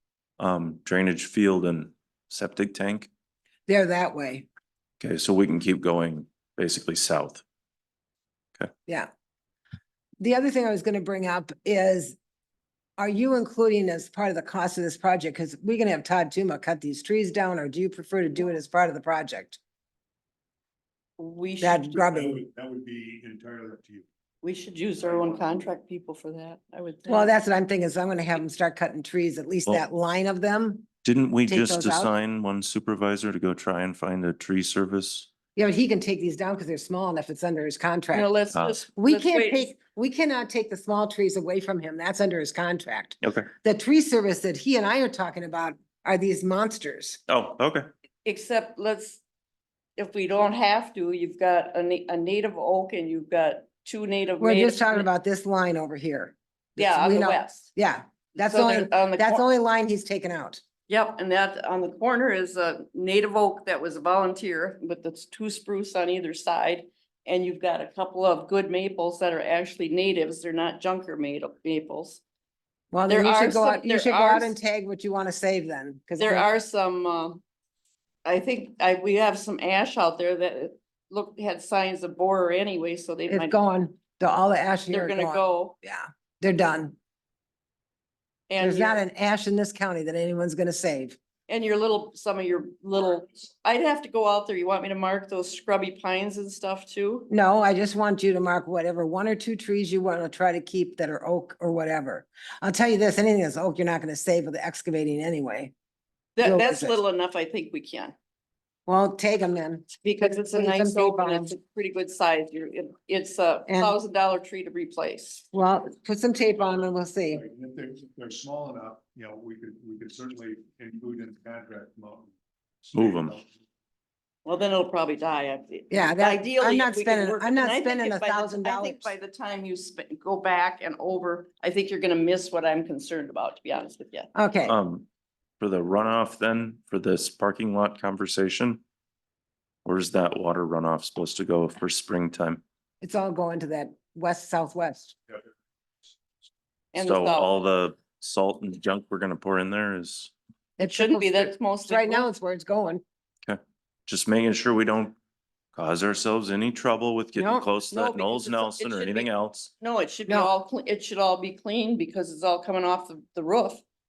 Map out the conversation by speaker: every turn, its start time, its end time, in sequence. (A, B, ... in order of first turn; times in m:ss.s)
0:00.4-0:03.1 A
0:03.7-0:04.5 B
0:05.0-0:07.4 A
0:10.2-0:12.2 B
0:13.0-0:19.6 B
0:21.2-0:21.9 C
0:21.6-0:22.4 B
0:22.0-0:24.0 D
0:24.4-0:27.3 C
0:25.0-0:25.6 D
0:27.1-0:30.9 B
0:31.0-0:35.3 A
0:31.5-0:32.1 B
0:35.6-0:38.3 B
0:38.1-0:39.7 C
0:38.5-0:38.8 A
0:39.0-0:47.2 B
0:43.2-0:43.5 A
0:47.3-0:47.8 A
0:48.2-0:49.2 C
0:50.0-0:55.1 C
0:54.4-1:00.6 B
0:56.8-0:57.7 C
0:58.4-0:59.4 C
1:00.9-1:12.2 C
1:12.9-1:16.5 B
1:13.1-1:14.5 C
1:16.2-1:17.4 C
1:18.2-1:23.5 C
1:23.3-1:26.9 B
1:24.9-1:25.7 C
1:28.5-1:29.0 C
1:28.6-1:31.2 B
1:31.5-1:37.3 C
1:37.3-1:45.7 B
1:46.4-1:48.1 C
1:46.4-1:47.0 B
1:48.9-1:51.5 B
1:50.0-1:55.4 C
1:53.7-1:53.9 B
1:55.5-1:57.4 B
1:57.3-2:03.5 D
2:02.9-2:03.4 A
2:04.4-2:14.3 C
2:05.9-2:09.1 B
2:14.3-2:14.8 B
2:14.6-2:15.0 A
2:15.6-2:18.8 A
2:19.8-2:22.6 A
2:23.0-2:25.1 B
2:26.9-2:27.5 C
2:27.0-2:30.3 A
2:30.8-2:32.3 C
2:30.8-2:33.0 B
2:33.4-2:35.2 A
2:35.7-2:39.7 A
2:37.3-2:37.7 B
2:37.9-2:43.8 C
2:40.3-2:40.5 B